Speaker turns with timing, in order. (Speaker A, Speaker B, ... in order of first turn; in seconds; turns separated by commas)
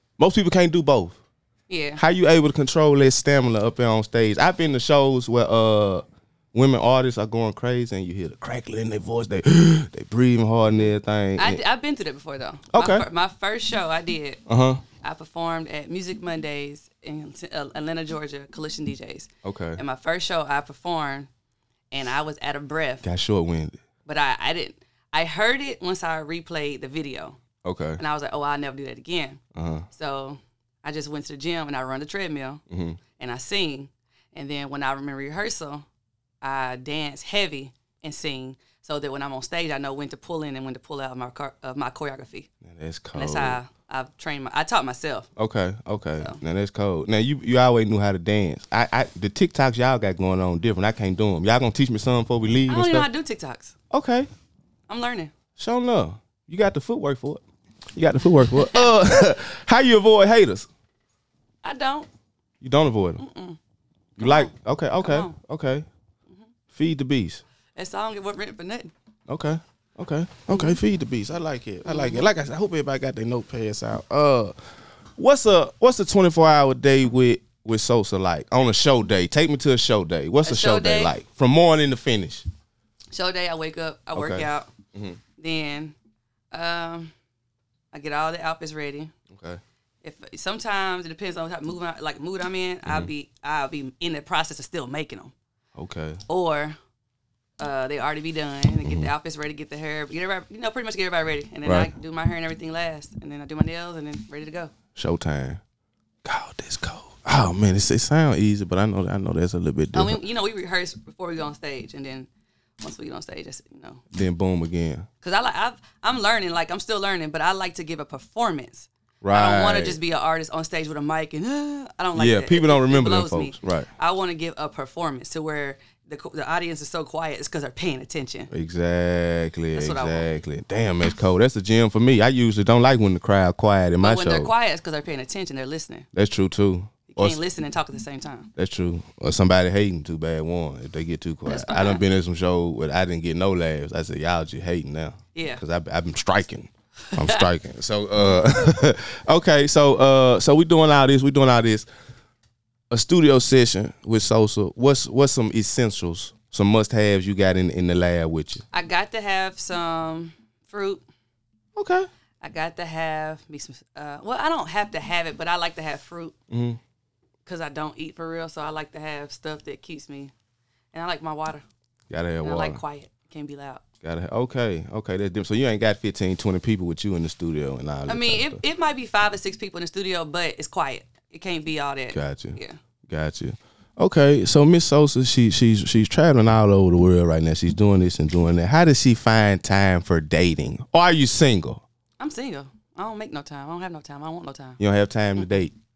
Speaker A: 0.2-1.2, Speaker B: 1.7-2.0, Speaker A: 2.0-11.6, Speaker B: 11.4-14.4, Speaker A: 12.7-13.1, Speaker A: 14.5-14.8, Speaker B: 15.0-21.3, Speaker A: 19.4-19.8, Speaker B: 21.9-23.1, Speaker A: 23.0-23.8, Speaker B: 24.0-27.4, Speaker A: 27.6-28.0, Speaker B: 28.0-29.4, Speaker A: 29.5-29.9, Speaker B: 29.9-32.6, Speaker A: 32.7-33.0, Speaker B: 33.2-35.8, Speaker B: 36.4-42.5, Speaker A: 42.6-43.6, Speaker B: 43.1-45.3, Speaker A: 45.4-53.1, Speaker B: 52.7-53.7, Speaker A: 53.9-54.3, Speaker B: 54.9-55.3, Speaker A: 55.5-57.4, Speaker A: 58.0-60.7, Speaker B: 58.5-58.9, Speaker B: 61.6-62.1, Speaker A: 62.6-63.2, Speaker B: 63.2-63.6, Speaker B: 64.2-65.4, Speaker A: 64.2-65.8, Speaker A: 66.7-67.4, Speaker B: 67.8-68.9, Speaker A: 69.3-74.5, Speaker B: 70.5-70.8, Speaker B: 71.8-72.3, Speaker A: 75.2-82.5, Speaker B: 80.4-81.2, Speaker B: 83.1-84.7, Speaker A: 84.1-85.2, Speaker B: 85.4-85.9, Speaker B: 86.5-87.1, Speaker B: 87.9-89.1, Speaker A: 89.3-89.6, Speaker B: 90.0-95.3, Speaker A: 95.8-96.2, Speaker B: 96.3-96.8, Speaker B: 97.6-104.7, Speaker A: 98.8-99.1, Speaker A: 101.6-101.9, Speaker A: 104.9-105.6, Speaker A: 106.2-110.2, Speaker B: 109.9-112.3, Speaker B: 112.8-114.0, Speaker A: 114.1-115.1, Speaker B: 115.2-128.5, Speaker A: 119.2-120.0, Speaker A: 122.1-123.9, Speaker A: 128.5-134.5, Speaker B: 129.7-130.4, Speaker B: 134.0-136.1, Speaker A: 136.1-137.4, Speaker B: 137.1-138.5, Speaker A: 138.6-151.9, Speaker B: 141.4-142.0, Speaker B: 145.3-145.6, Speaker B: 147.1-147.5, Speaker A: 152.9-158.6, Speaker B: 158.7-161.0, Speaker A: 161.8-162.1, Speaker B: 162.4-166.3, Speaker A: 166.5-166.8, Speaker B: 167.4-170.3, Speaker B: 170.9-171.6, Speaker A: 172.1-172.8, Speaker B: 172.4-173.8, Speaker A: 174.0-178.6, Speaker B: 178.1-182.8, Speaker A: 182.1-191.8, Speaker B: 192.2-194.8, Speaker A: 194.8-195.7